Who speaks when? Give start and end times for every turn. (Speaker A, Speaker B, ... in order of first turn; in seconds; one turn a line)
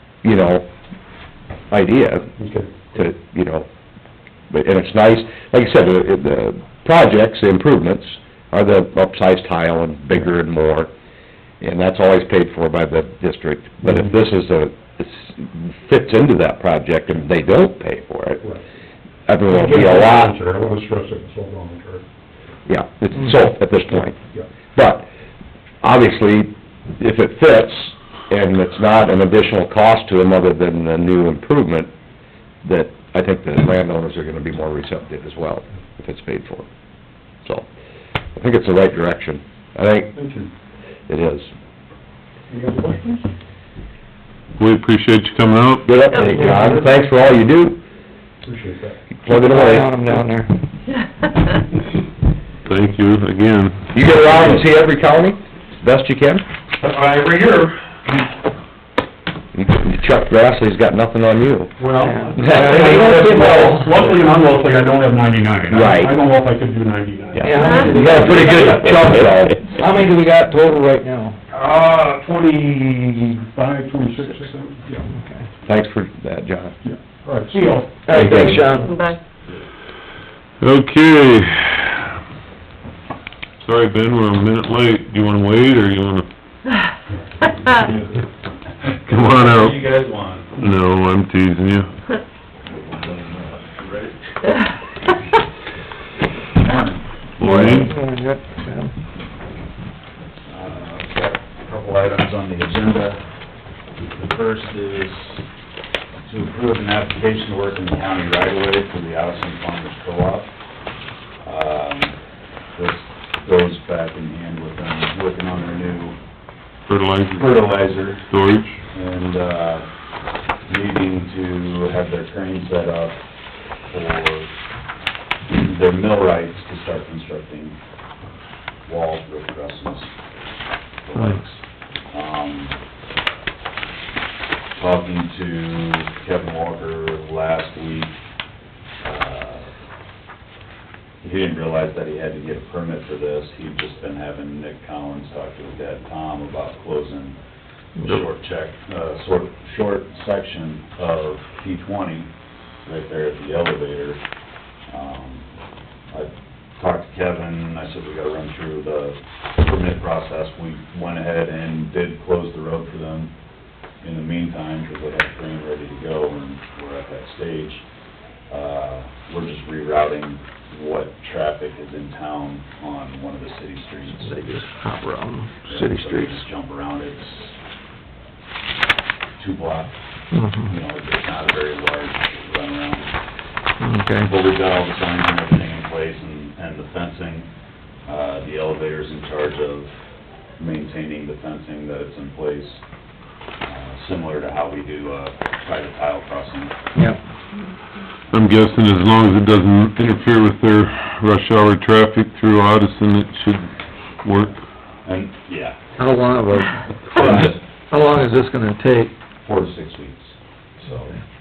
Speaker A: 0.2-0.7
Speaker A: 1.7-2.3
Speaker B: 2.4-2.7
Speaker A: 2.9-3.7
Speaker A: 4.5-10.9
Speaker A: 11.6-18.4
Speaker A: 19.3-20.4
Speaker B: 19.5-22.0
Speaker A: 22.7-24.2
Speaker A: 24.7-25.1
Speaker A: 25.8-31.9
Speaker A: 32.6-36.7
Speaker A: 38.3-40.1
Speaker B: 40.1-40.5
Speaker A: 41.1-41.5
Speaker B: 42.5-43.3
Speaker C: 44.6-45.9
Speaker A: 45.8-47.8
Speaker D: 46.1-46.6
Speaker E: 46.3-46.9
Speaker B: 48.4-49.0
Speaker A: 49.2-50.1
Speaker E: 49.2-50.6
Speaker D: 50.9-51.6
Speaker C: 52.6-54.0
Speaker A: 53.9-56.4
Speaker B: 56.8-58.4
Speaker A: 59.5-61.7
Speaker B: 61.8-68.7
Speaker E: 62.0-64.1
Speaker A: 62.4-63.7
Speaker A: 65.7-66.2
Speaker A: 67.3-69.7
Speaker E: 67.4-73.4
Speaker D: 67.6-67.9
Speaker B: 71.6-72.4
Speaker B: 73.5-75.1
Speaker E: 75.1-75.5
Speaker A: 75.6-76.7
Speaker B: 76.8-78.8
Speaker E: 77.5-79.0
Speaker A: 78.1-78.8
Speaker D: 78.8-79.2
Speaker C: 80.6-82.2
Speaker C: 83.6-86.3
Speaker C: 89.0-89.8
Speaker F: 89.0-90.5
Speaker C: 90.6-91.9
Speaker F: 92.7-94.2
Speaker F: 96.5-97.1
Speaker C: 97.4-97.9
Speaker E: 97.4-98.9
Speaker F: 100.5-103.2
Speaker F: 104.0-105.4
Speaker F: 106.2-110.5
Speaker F: 111.4-112.2
Speaker F: 112.7-116.2
Speaker C: 116.9-117.7
Speaker F: 117.3-118.3
Speaker C: 118.3-118.8
Speaker F: 118.9-119.8
Speaker F: 120.7-123.2
Speaker F: 123.9-124.5
Speaker F: 125.5-127.8
Speaker F: 128.8-130.1
Speaker F: 131.0-132.8
Speaker F: 134.8-138.2
Speaker F: 139.0-139.7
Speaker F: 141.2-147.4
Speaker F: 147.9-152.3
Speaker F: 152.8-154.2
Speaker F: 154.9-155.5
Speaker F: 156.1-163.3
Speaker F: 164.0-167.8
Speaker F: 168.5-174.4
Speaker E: 174.2-176.4
Speaker F: 175.7-177.6
Speaker F: 179.4-180.0
Speaker E: 180.3-180.7
Speaker F: 180.7-183.1
Speaker E: 183.8-184.3
Speaker F: 184.2-187.5
Speaker F: 188.1-192.8
Speaker F: 193.6-196.7
Speaker E: 196.9-197.2
Speaker C: 198.3-203.7
Speaker C: 204.2-204.5
Speaker F: 205.0-205.8
Speaker E: 206.0-209.1
Speaker F: 207.1-207.6
Speaker F: 209.4-211.2